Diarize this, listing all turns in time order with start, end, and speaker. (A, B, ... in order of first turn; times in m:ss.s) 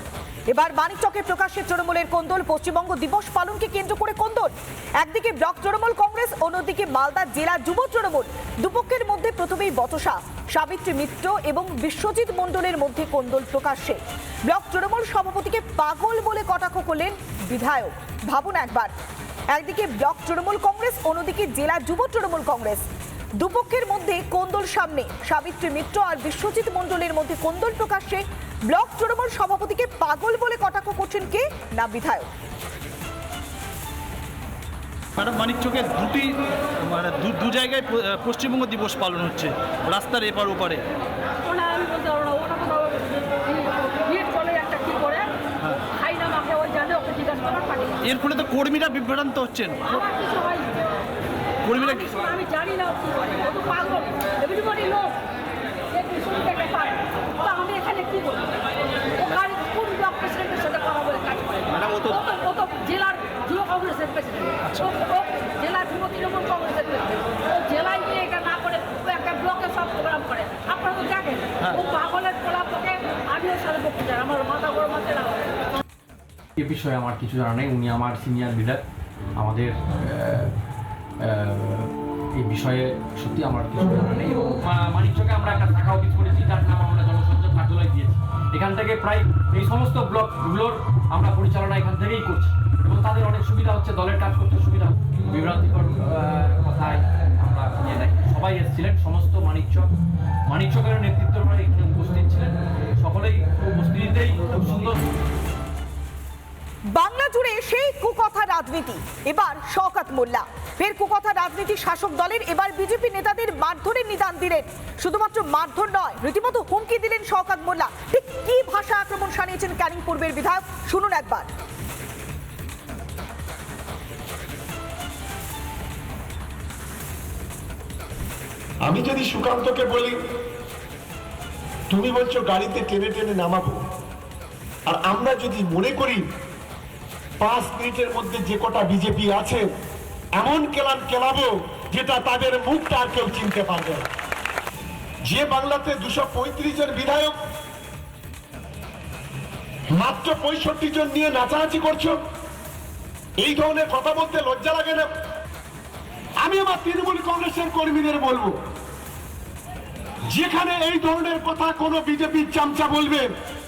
0:00.5-0:18.9 A
0:19.5-0:22.8 A
0:23.4-0:32.3 A
0:35.2-0:36.3 B
0:36.8-0:40.8 B
0:41.4-0:45.3 C
0:45.9-0:48.0 C
0:48.0-0:49.9 B
0:50.0-0:50.8 C
0:51.9-0:55.2 C
0:55.9-0:58.6 C
0:59.2-1:15.5 C
1:16.6-1:18.8 D
1:19.4-1:20.5 D
1:21.2-1:39.9 D
1:40.5-1:42.5 D
1:43.0-1:45.0 D
1:46.9-2:01.5 A
2:08.8-2:10.2 E
2:11.9-2:13.8 E
2:14.9-2:16.2 E
2:17.4-2:19.7 E
2:20.4-2:24.1 E
2:25.3-2:27.4 E
2:29.9-2:32.2 E
2:33.4-2:35.1 E
2:36.4-2:38.5 E
2:40.3-2:43.3 E